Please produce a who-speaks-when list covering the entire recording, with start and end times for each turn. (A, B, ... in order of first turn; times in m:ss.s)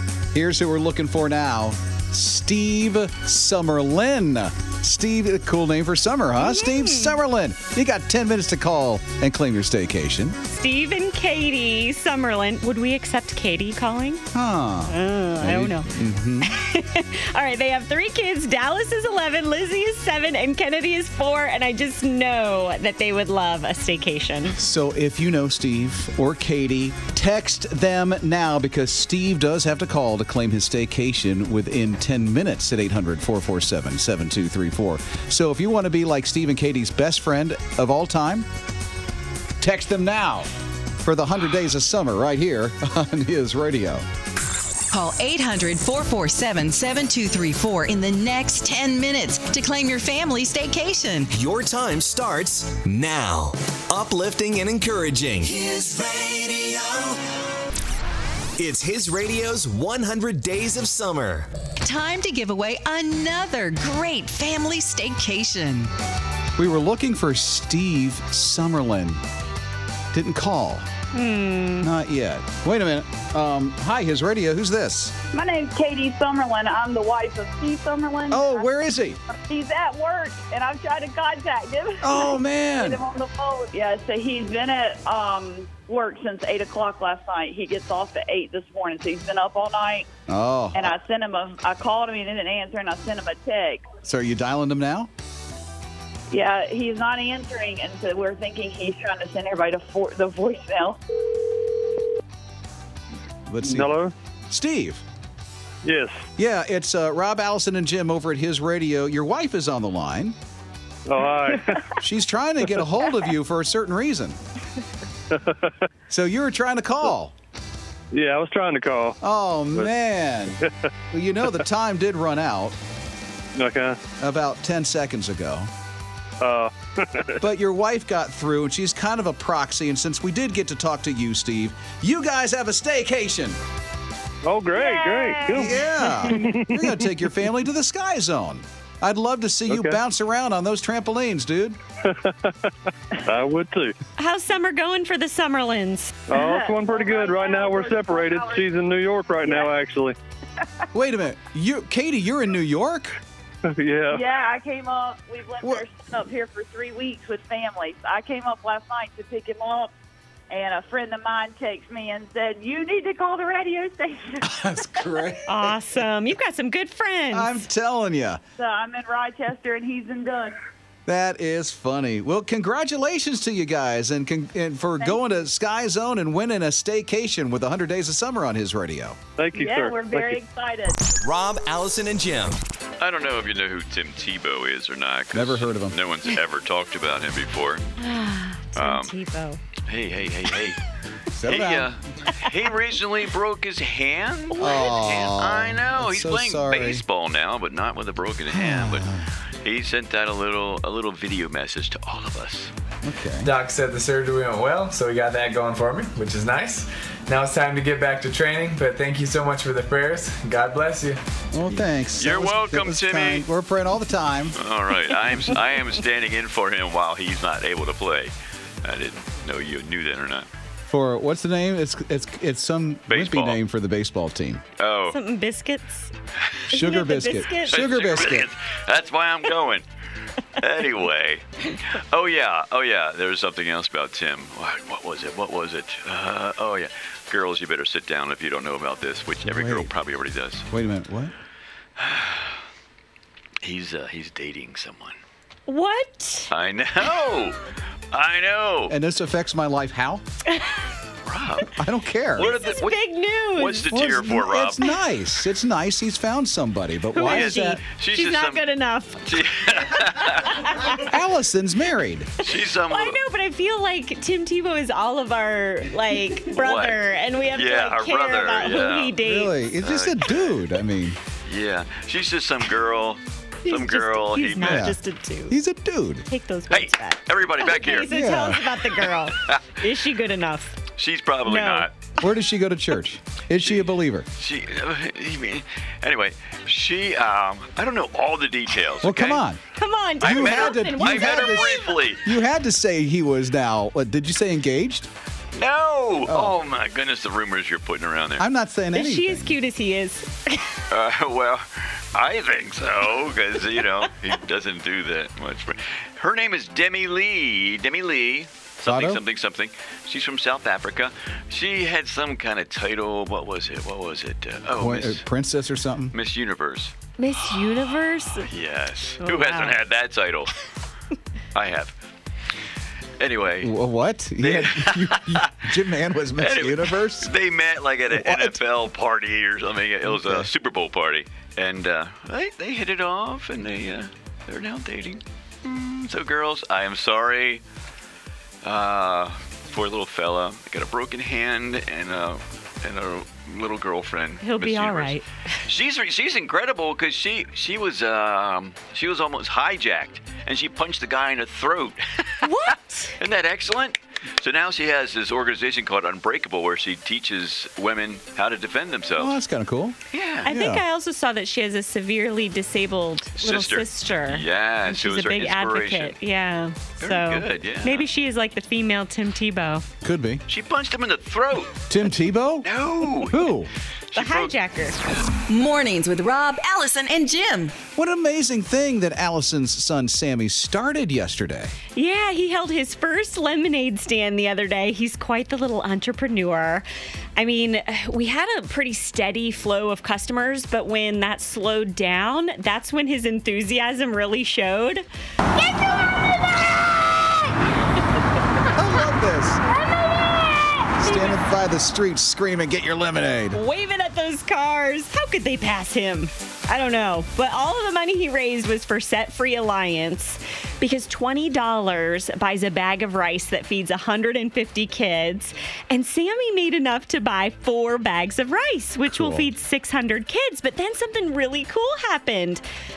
0:00.3-0:10.4 A
0:06.4-0:07.2 B
0:10.5-0:14.2 B
0:14.3-0:16.5 A
0:14.9-0:15.9 B
0:16.4-0:24.6 B
0:24.6-0:38.5 A
0:39.6-0:40.5 A
0:41.0-0:44.0 A
0:44.9-0:51.3 C
0:51.3-0:57.2 D
0:58.6-1:01.5 D
1:01.8-1:05.9 C
1:06.6-1:09.2 A
1:10.1-1:10.9 A
1:11.1-1:11.9 B
1:11.8-1:15.2 A
1:15.3-1:18.7 E
1:18.3-1:19.2 A
1:19.3-1:30.1 E
1:22.0-1:23.0 A
1:30.3-1:30.9 A
1:30.7-1:33.9 E
1:34.0-1:35.1 A
1:36.3-1:41.0 E
1:43.5-1:44.0 A
1:43.6-1:44.1 F
1:44.5-1:45.0 A
1:45.8-1:46.3 F
1:46.4-1:50.4 A
1:51.1-1:51.8 F
1:52.0-1:54.4 A
1:55.3-1:55.7 F
1:56.1-1:57.3 A
1:58.1-1:59.2 F
1:59.2-2:02.8 A
2:03.6-2:04.0 F
2:04.2-2:05.7 A
2:06.4-2:07.4 F
2:07.4-2:13.6 A
2:14.4-2:17.1 F
2:14.7-2:15.7 E
2:15.5-2:21.8 A
2:19.7-2:20.0 F
2:22.2-2:22.5 F
2:23.2-2:24.0 F
2:24.2-2:26.3 B
2:26.3-2:30.2 F
2:26.3-2:28.7 E
2:29.4-2:29.7 E
2:30.9-2:33.2 A
2:33.7-2:34.2 F
2:34.1-2:39.9 E
2:40.5-2:45.2 E
2:44.4-2:45.7 A
2:45.5-2:47.6 B
2:47.3-2:48.4 A
2:48.6-2:50.6 E
2:51.1-2:59.2 A
2:59.4-3:00.4 F
2:59.5-3:01.0 E
3:01.2-3:02.6 D
3:03.0-3:07.8 G
3:05.3-3:06.0 A
3:08.0-3:09.6 B
3:08.8-3:09.1 G
3:09.9-3:10.8 G
3:11.4-3:11.9 A
3:11.4-3:19.1 G
3:14.5-3:15.0 B
3:14.6-3:17.0 A
3:18.5-3:19.3 A
3:19.6-3:22.7 G
3:23.0-3:23.5 A
3:23.4-3:31.2 H
3:31.5-3:34.6 A
3:32.2-3:33.5 G
3:34.6-3:38.3 G
3:38.8-3:40.5 G
3:40.9-3:44.6 A
3:43.1-3:43.6 G
3:44.8-3:45.2 G
3:45.1-3:46.1 B
3:46.7-3:48.5 A
3:46.7-3:47.9 B
3:47.7-3:49.8 G
3:50.6-4:00.7 G
3:59.4-3:59.9 A
4:00.7-4:01.3 A
4:02.0-4:02.6 G
4:03.6-4:05.2 G
4:05.7-4:06.5 B
4:06.5-4:07.6 G
4:08.1-4:08.9 G
4:08.9-4:10.2 A
4:10.5-4:10.7 B
4:11.2-4:11.8 G
4:11.8-4:12.5 A
4:12.4-4:13.0 G
4:12.4-4:13.9 B
4:13.5-4:14.8 G
4:13.9-4:17.8 A
4:17.1-4:19.4 B
4:17.2-4:18.7 G
4:19.3-4:20.8 G
4:20.1-4:21.0 B
4:21.0-4:22.3 A
4:22.4-4:23.2 G
4:22.9-4:29.6 B
4:26.5-4:29.2 G
4:29.2-4:31.2 A
4:29.8-4:30.6 G
4:31.5-4:35.0 G
4:33.6-4:35.6 B
4:34.6-4:35.0 A
4:35.5-4:36.3 A
4:36.3-4:40.8 B
4:36.7-4:38.1 G
4:38.1-4:38.6 A
4:39.4-4:39.7 G
4:41.0-4:41.9 G
4:41.5-4:41.9 B
4:42.2-4:44.3 A
4:44.4-4:49.4 G
4:49.0-4:49.6 A
4:49.8-4:52.0 B
4:50.2-4:52.2 G
4:50.2-4:55.1 A
4:55.6-4:58.4 G
4:56.2-4:56.6 A
4:58.4-4:59.6 A
4:58.9-5:00.7 B
5:00.9-5:15.2 G
5:08.8-5:09.2 A
5:14.8-5:16.1 A
5:16.1-5:20.5 G
5:17.2-5:18.5 B
5:19.2-5:19.8 B
5:21.5-5:21.9 G
5:23.2-5:23.7 G
5:23.6-5:27.3 A
5:24.4-5:25.7 G
5:26.4-5:37.6 G
5:28.1-5:28.6 A
5:30.1-5:30.5 A
5:38.6-5:52.5 G
5:44.4-5:45.2 B
5:52.4-5:53.2 B
5:53.2-5:59.4 G
5:59.2-6:00.8 A
6:00.1-6:00.5 G
6:00.4-6:09.9 B
6:03.4-6:06.2 G
6:07.0-6:08.1 G
6:10.0-6:10.4 A
6:10.5-6:11.9 G
6:11.9-6:12.7 A
6:12.6-6:13.6 G
6:13.2-6:13.7 A
6:14.1-6:14.5 G
6:14.2-6:15.0 B
6:15.5-6:17.8 C
6:18.0-6:21.7 A
6:22.0-6:26.8 B
6:27.4-6:35.0 B
6:38.7-6:39.6 A
6:41.0-6:43.6 A
6:43.5-7:02.6 B
6:59.1-6:59.5 A